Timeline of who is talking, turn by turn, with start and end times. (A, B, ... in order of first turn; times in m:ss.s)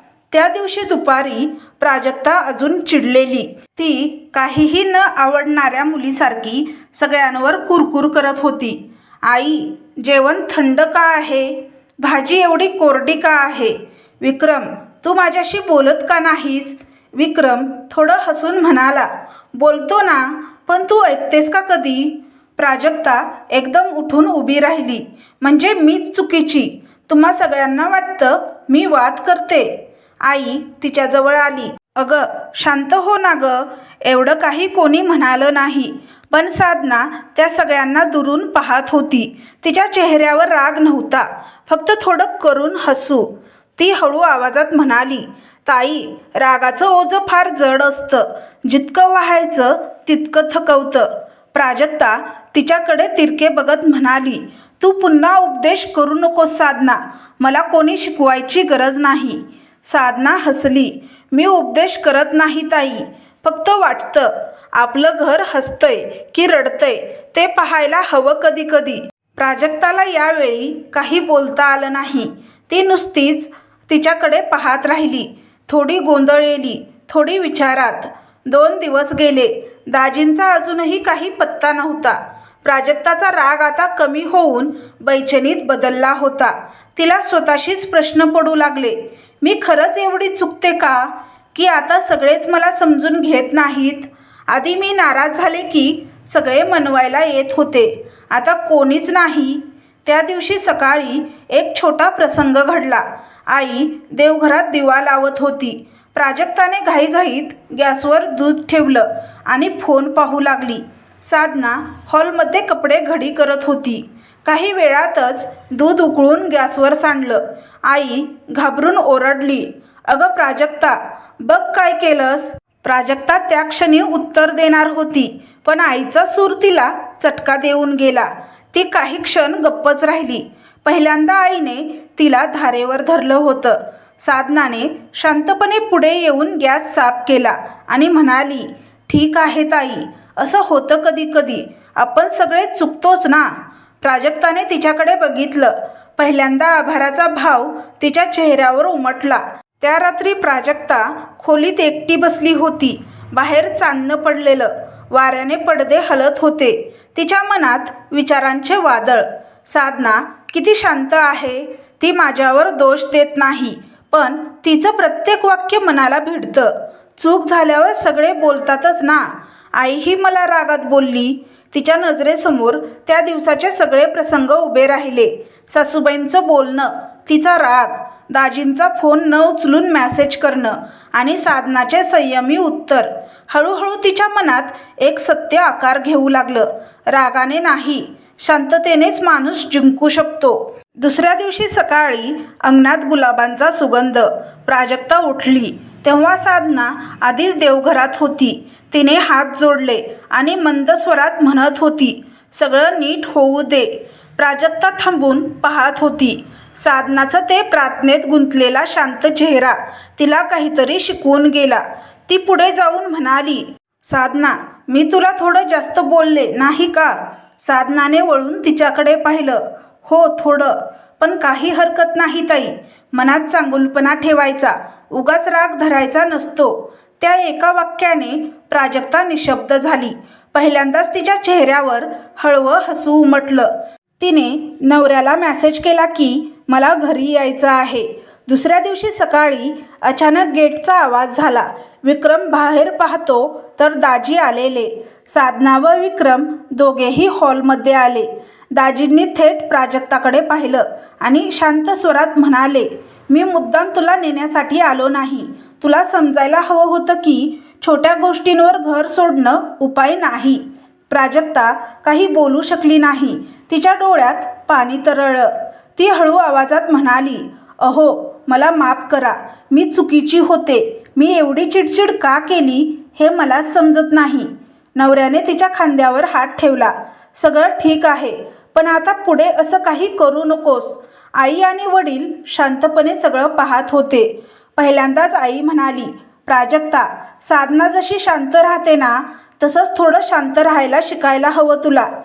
0:00.3-4:52.1 A